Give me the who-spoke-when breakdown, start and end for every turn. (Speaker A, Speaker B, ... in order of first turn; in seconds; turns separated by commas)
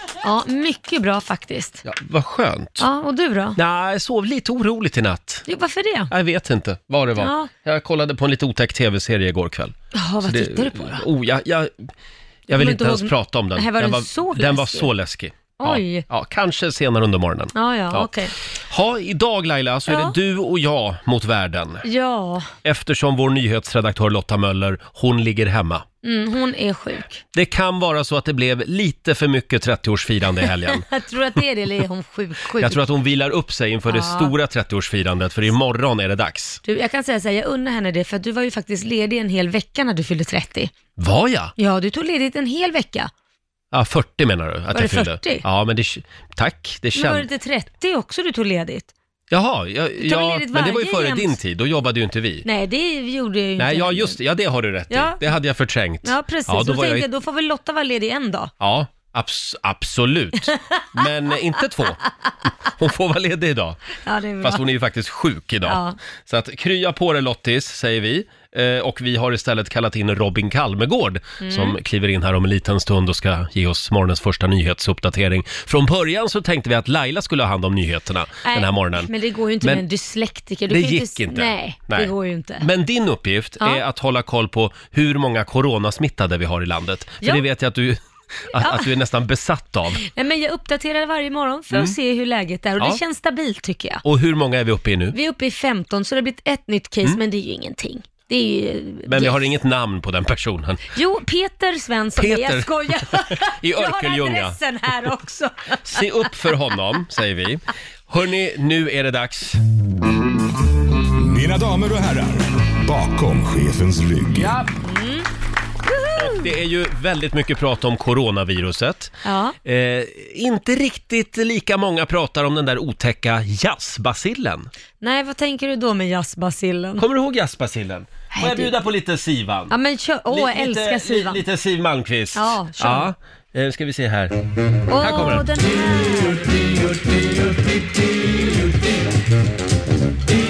Speaker A: 0.2-1.8, Speaker B: 1.8-2.9, Speaker A: 2.8-3.6, Speaker B: 3.6-5.5, Speaker A: 5.5-6.1, Speaker B: 6.1-11.9, Speaker A: 7.2-7.5, Speaker A: 9.9-11.1, Speaker B: 12.5-18.1, Speaker A: 12.5-14.9, Speaker A: 15.6-16.1, Speaker A: 17.5-18.3, Speaker B: 18.7-21.9, Speaker A: 19.9-20.2, Speaker A: 21.8-22.5, Speaker B: 22.6-25.9, Speaker A: 26.0-27.2, Speaker B: 27.4-30.9, Speaker A: 30.7-32.8, Speaker B: 32.6-36.6, Speaker A: 33.9-34.3, Speaker A: 36.6-40.7, Speaker B: 41.0-41.5, Speaker A: 41.6-43.1, Speaker B: 43.7-47.3, Speaker A: 44.7-45.5, Speaker A: 47.0-48.9, Speaker B: 49.3-52.5, Speaker A: 50.0-51.4, Speaker A: 52.5-54.2, Speaker B: 53.6-57.1, Speaker A: 54.9-55.3, Speaker A: 56.0-58.5, Speaker B: 58.6-62.0, Speaker B: 62.8-63.8, Speaker A: 64.0-64.6, Speaker B: 64.4-79.1, Speaker A: 65.7-66.0, Speaker A: 71.4-71.8, Speaker A: 78.5-82.7, Speaker B: 80.7-88.0, Speaker B: 88.5-90.0, Speaker A: 88.6-88.9, Speaker A: 90.0-94.0, Speaker B: 94.0-95.2, Speaker A: 95.1-99.5, Speaker B: 99.1-100.9, Speaker A: 101.0-106.3, Speaker B: 102.2-104.6, Speaker B: 105.8-109.6, Speaker C: 111.2-114.6, Speaker B: 114.3-114.8, Speaker A: 114.8-115.3, Speaker A: 115.9-116.4, Speaker B: 116.2-124.7, Speaker A: 119.2-119.5, Speaker A: 125.0-127.0, Speaker B: 127.0-129.7, Speaker A: 128.3-128.7, Speaker A: 129.7-131.4, Speaker B: 130.3-134.3, Speaker A: 132.3-133.1, Speaker A: 134.9-136.5, Speaker B: 135.0-135.5